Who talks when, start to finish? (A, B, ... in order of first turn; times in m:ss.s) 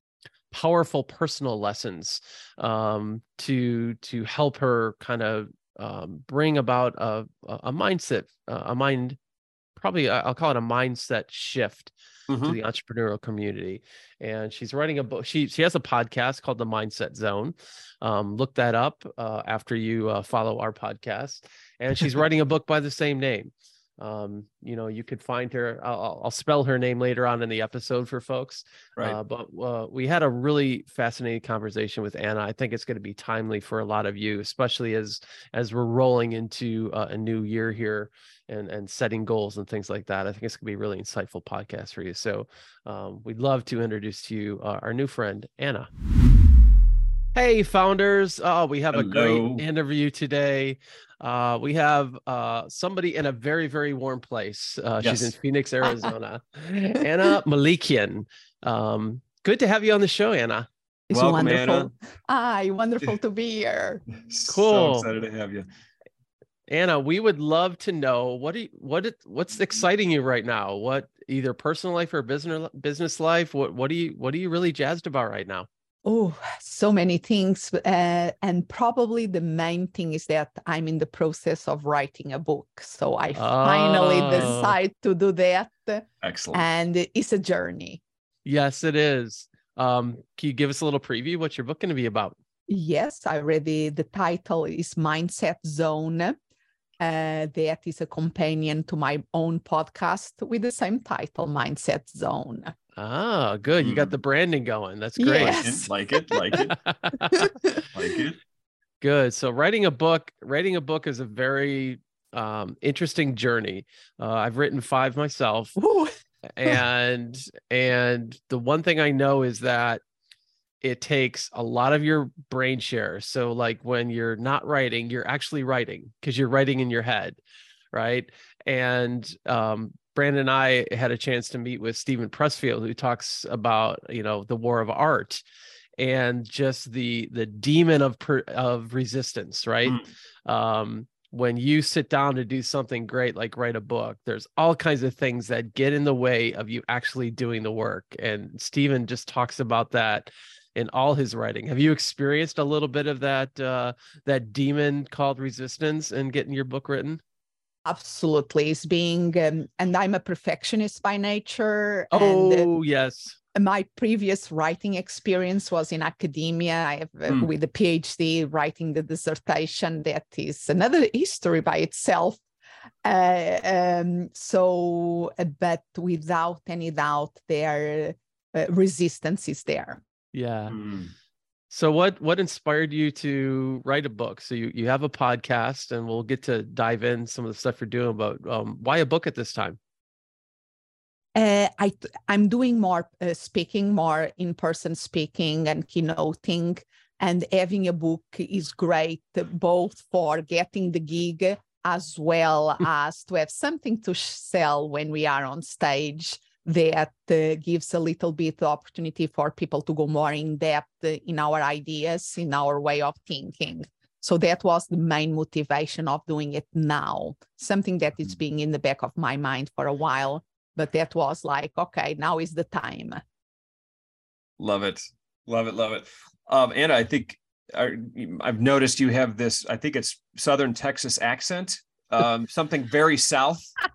0:00.5-0:09.2 A
0:09.8-0:45.9 A
0:12.3-0:12.6 B
0:47.3-1:00.7 A
0:48.9-0:49.6 B
0:55.0-0:55.3 B
1:01.1-1:04.0 C
1:01.1-1:01.9 B
1:04.2-1:05.6 B
1:04.5-1:05.1 A
1:06.7-1:15.7 A
1:16.0-1:28.0 C
1:23.4-1:24.8 A
1:26.2-1:26.6 B
1:28.4-1:32.4 A
1:32.7-1:36.4 C
1:37.0-1:42.7 C
1:43.0-1:45.8 A
1:43.8-1:44.1 B
1:45.2-1:46.6 C
1:45.4-1:46.8 B
1:46.5-1:47.4 A
1:47.3-1:47.8 C
1:47.9-1:48.4 B
1:49.0-1:55.8 A
1:55.8-1:56.1 C
1:56.5-2:00.0 A
2:00.8-2:07.4 A
2:07.9-2:15.4 A
2:16.0-2:37.2 A
2:37.8-2:42.7 C
2:42.1-2:43.4 A
2:43.5-2:52.4 C
2:53.0-3:00.0 C
3:00.3-3:00.8 A
3:00.7-3:01.1 B
3:01.7-3:09.8 A
3:11.3-3:43.2 C
3:44.6-3:53.7 B